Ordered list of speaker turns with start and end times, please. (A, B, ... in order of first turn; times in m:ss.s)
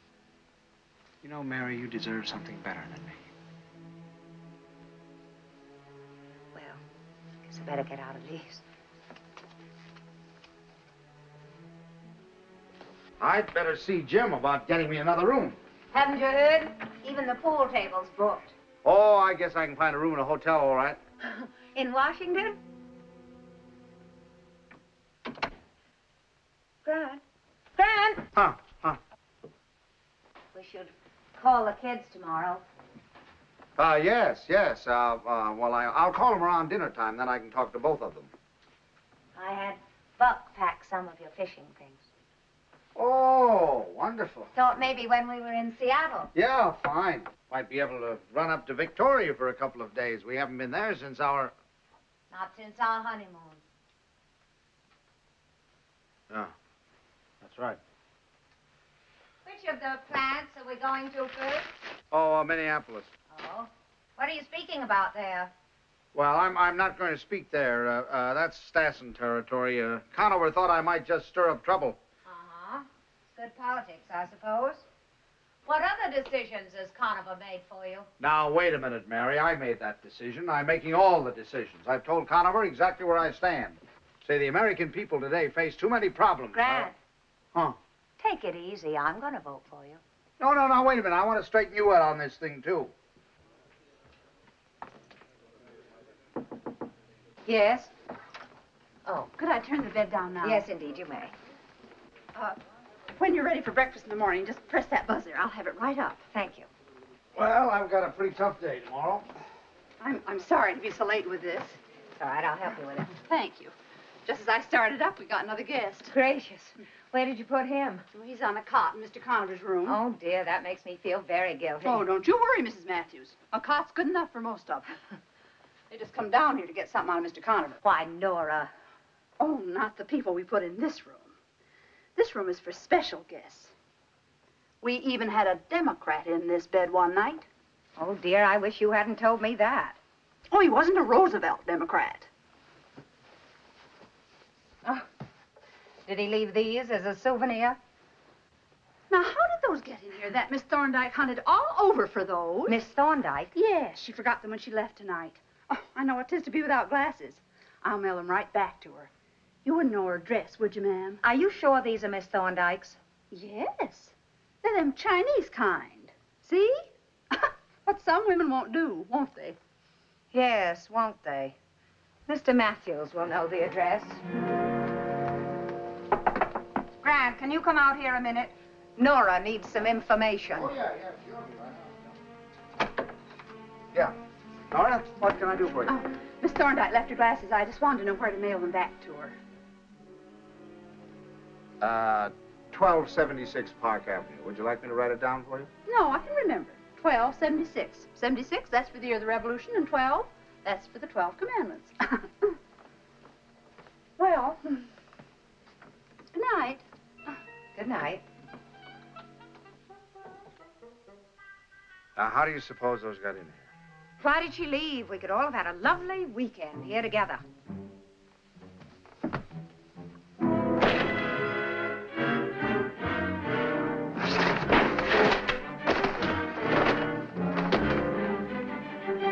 0:01.2-0:03.2 A
0:06.5-0:06.8 B
0:07.5-0:08.6 B
0:13.2-0:15.6 A
0:15.9-0:18.5 B
0:18.8-0:21.0 A
0:21.2-0:22.6 B
0:26.8-0:27.2 B
0:27.8-0:28.3 B
0:28.3-0:29.0 A
0:30.5-0:32.6 B
0:33.8-0:38.3 A
0:39.4-0:42.1 B
0:43.0-0:44.5 A
0:44.6-0:46.3 B
0:46.3-0:51.5 A
0:52.3-0:53.6 B
0:57.4-0:57.8 A
0:59.4-1:01.7 B
1:02.1-1:03.1 A
1:03.3-1:05.5 B
1:06.1-1:12.0 A
1:12.2-1:14.8 B
1:15.7-1:18.1 B
1:18.2-1:26.9 A
1:26.5-1:27.0 B
1:28.2-1:30.0 B
1:30.4-1:32.9 A
1:37.4-1:37.9 B
1:39.4-1:40.6 C
1:40.4-1:41.3 B
1:43.2-1:46.2 C
1:46.3-1:46.7 B
1:47.4-1:49.3 A
1:50.0-1:51.8 C
1:52.2-1:53.1 B
1:53.1-1:53.7 C
1:54.3-1:56.1 C
1:56.1-1:58.0 B
1:58.1-2:00.0 C
1:59.8-2:02.1 B
2:01.8-2:05.0 C
2:05.9-2:07.8 C
2:07.8-2:08.7 B
2:09.4-2:11.3 C
2:12.2-2:13.7 C
2:14.8-2:17.5 C
2:18.0-2:20.0 B
2:20.5-2:22.3 C
2:26.1-2:27.8 B
2:29.1-2:32.8 C
2:32.7-2:33.5 B
2:33.6-2:39.1 C
2:39.6-2:41.2 C
2:41.2-2:43.0 B
2:43.3-2:49.6 C
2:50.3-2:51.6 B
2:52.3-2:54.2 B
2:57.0-3:00.7 B
3:00.5-3:02.1 A
3:04.7-3:05.9 A
3:05.8-3:09.4 C
3:11.8-3:15.7 A
3:15.9-3:22.5 C
3:24.2-3:24.8 C
3:26.3-3:26.8 C
3:27.8-3:28.2 B
3:32.2-3:33.7 A
3:34.2-3:37.4 B